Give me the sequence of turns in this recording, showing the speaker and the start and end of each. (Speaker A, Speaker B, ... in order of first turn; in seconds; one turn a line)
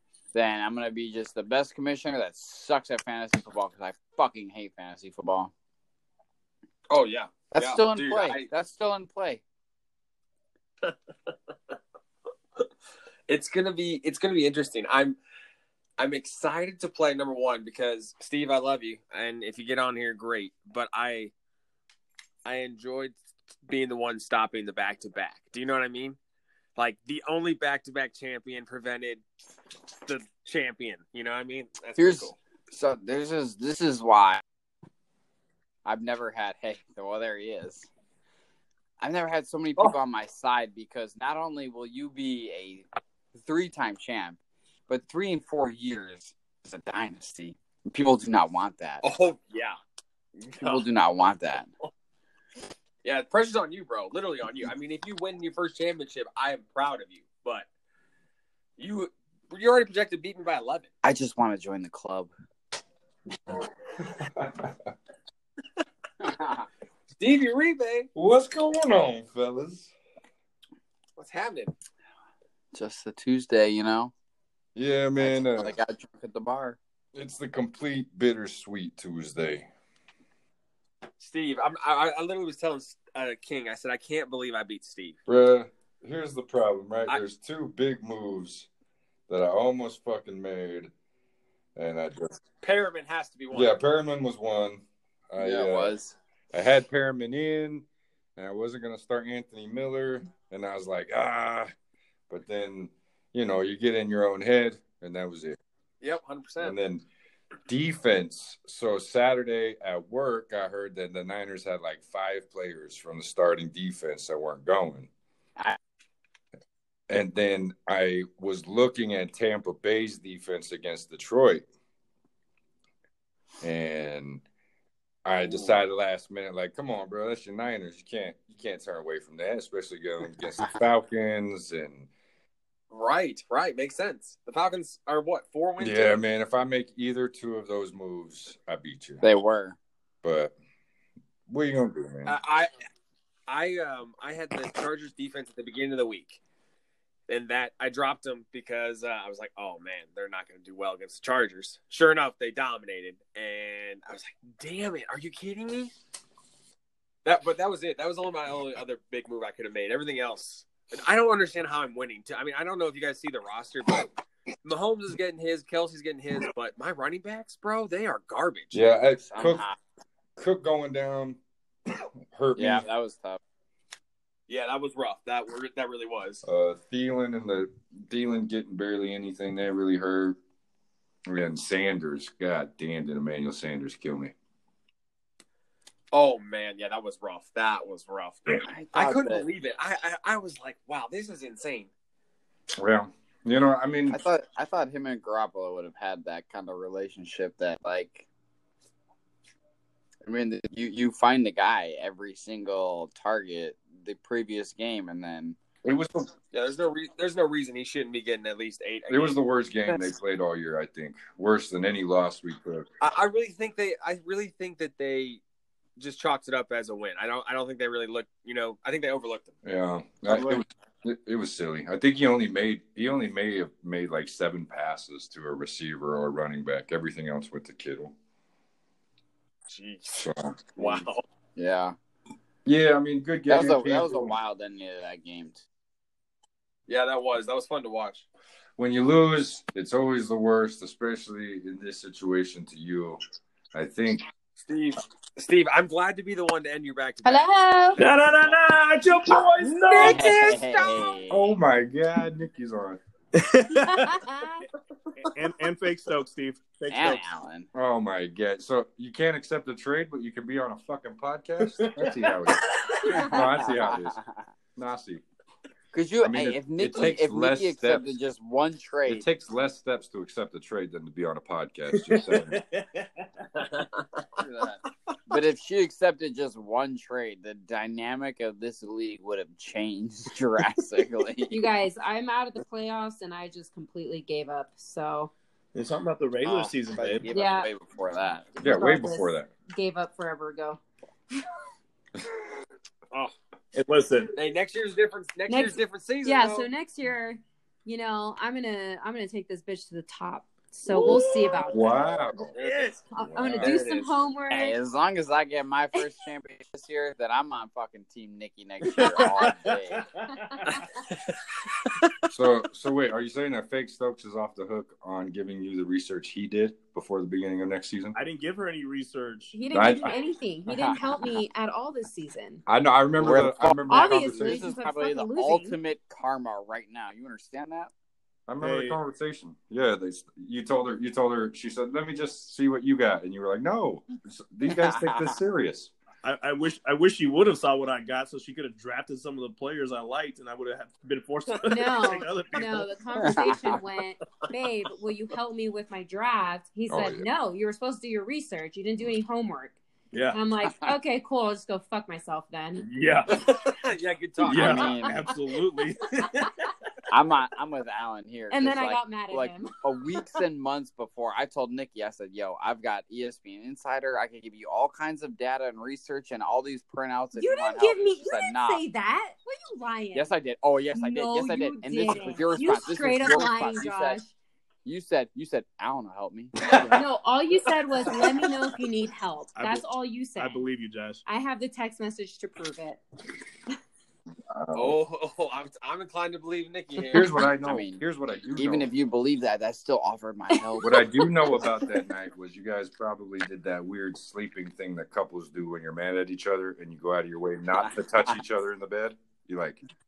Speaker A: 0.3-5.5
Speaker B: 6.9-8.5
Speaker A: 7.5-9.4
Speaker B: 13.3-15.2
Speaker B: 16.0-21.3
Speaker B: 22.4-26.2
Speaker B: 26.8-29.2
Speaker B: 30.1-32.4
Speaker A: 32.0-34.4
Speaker A: 35.9-37.9
Speaker A: 39.0-44.4
Speaker A: 44.9-49.0
Speaker B: 49.0-49.8
Speaker B: 50.4-50.8
Speaker A: 50.6-51.7
Speaker B: 53.0-57.7
Speaker B: 58.8-60.9
Speaker A: 61.0-62.3
Speaker C: 64.1-64.7
Speaker A: 66.2-66.7
Speaker B: 67.2-68.1
Speaker C: 68.1-69.9
Speaker B: 71.2-71.7
Speaker A: 72.7-74.1
Speaker C: 74.8-75.8
Speaker A: 75.2-76.8
Speaker C: 77.1-79.7
Speaker B: 81.2-85.2
Speaker C: 85.3-88.7
Speaker C: 89.3-90.9
Speaker C: 91.8-92.4
Speaker B: 92.6-93.8
Speaker C: 93.5-96.0
Speaker A: 95.4-96.2
Speaker C: 96.5-97.9
Speaker C: 98.4-101.7
Speaker C: 102.3-105.6
Speaker B: 106.0-106.8
Speaker C: 106.6-107.0
Speaker C: 107.7-115.1
Speaker C: 117.1-121.7
Speaker C: 123.6-124.4
Speaker C: 125.2-132.1
Speaker B: 125.4-125.8
Speaker B: 132.9-136.2
Speaker C: 135.8-139.2
Speaker A: 139.2-139.8
Speaker C: 140.2-140.6
Speaker C: 141.5-142.4
Speaker B: 142.3-142.7
Speaker B: 143.5-146.4
Speaker B: 147.3-155.9
Speaker B: 157.2-164.1
Speaker B: 164.6-168.8
Speaker C: 168.7-169.7
Speaker A: 169.2-169.8
Speaker C: 170.4-171.4
Speaker C: 172.3-172.8
Speaker A: 172.6-173.4
Speaker B: 174.5-176.4
Speaker C: 176.4-180.4
Speaker C: 181.3-184.3
Speaker B: 186.1-191.9
Speaker A: 188.7-189.4
Speaker C: 192.8-194.2
Speaker A: 194.1-198.3
Speaker A: 200.2-205.6
Speaker C: 205.8-206.3
Speaker B: 206.5-209.4
Speaker C: 209.1-212.9
Speaker B: 213.0-215.4
Speaker B: 216.0-219.6
Speaker C: 219.6-228.1
Speaker A: 220.3-220.6
Speaker B: 229.7-231.2
Speaker C: 230.2-231.1
Speaker A: 231.6-232.0
Speaker C: 232.7-234.4
Speaker A: 233.5-235.6
Speaker B: 236.9-238.3
Speaker C: 238.8-243.2
Speaker C: 243.7-244.3
Speaker B: 244.6-247.4
Speaker D: 247.2-248.0
Speaker E: 248.0-250.3
Speaker B: 249.6-251.1
Speaker A: 250.0-251.5
Speaker C: 251.3-253.0
Speaker E: 253.3-254.2
Speaker D: 253.9-254.7
Speaker E: 255.2-257.2
Speaker A: 256.9-257.7
Speaker C: 257.7-264.2
Speaker E: 261.7-263.1
Speaker D: 263.1-263.4
Speaker A: 263.1-264.2
Speaker C: 264.8-265.2
Speaker A: 265.9-269.3
Speaker C: 266.2-268.1
Speaker C: 269.1-272.6
Speaker E: 271.9-273.7
Speaker B: 273.6-274.3
Speaker A: 274.4-281.7
Speaker D: 281.5-285.3
Speaker E: 285.7-287.3
Speaker A: 286.6-288.5
Speaker D: 287.3-287.7
Speaker D: 288.6-290.8
Speaker C: 288.6-289.5
Speaker E: 293.7-294.3
Speaker B: 294.4-296.7
Speaker D: 295.5-302.3
Speaker E: 300.9-301.7
Speaker C: 301.7-302.6
Speaker B: 302.5-303.0
Speaker E: 302.6-303.0
Speaker D: 303.1-304.8
Speaker C: 303.2-303.8
Speaker B: 303.6-304.1
Speaker A: 304.5-310.1
Speaker E: 308.8-310.9
Speaker C: 312.3-318.2
Speaker E: 318.1-319.6
Speaker D: 319.5-322.6
Speaker C: 319.7-320.2
Speaker A: 320.7-321.0
Speaker C: 322.7-324.7
Speaker A: 323.2-327.9
Speaker D: 323.9-325.8
Speaker C: 328.5-335.9
Speaker E: 328.6-329.0
Speaker A: 334.7-335.4
Speaker E: 336.2-342.9
Speaker D: 341.7-349.8
Speaker A: 343.2-343.8
Speaker C: 346.9-347.3
Speaker E: 350.1-350.4
Speaker D: 350.3-352.9
Speaker E: 352.8-353.7
Speaker B: 353.6-355.0
Speaker E: 354.4-356.7
Speaker A: 354.5-355.2
Speaker C: 354.5-354.8
Speaker A: 357.1-368.8
Speaker D: 358.5-359.8
Speaker D: 367.4-370.3
Speaker A: 370.1-374.2
Speaker D: 370.9-374.3
Speaker A: 374.9-376.5
Speaker D: 376.9-380.6
Speaker E: 379.6-381.2
Speaker D: 381.3-383.0
Speaker C: 384.5-385.0
Speaker B: 384.7-387.3
Speaker C: 387.1-388.9
Speaker A: 387.6-388.0
Speaker A: 388.6-391.1
Speaker C: 390.8-399.8
Speaker A: 397.8-398.3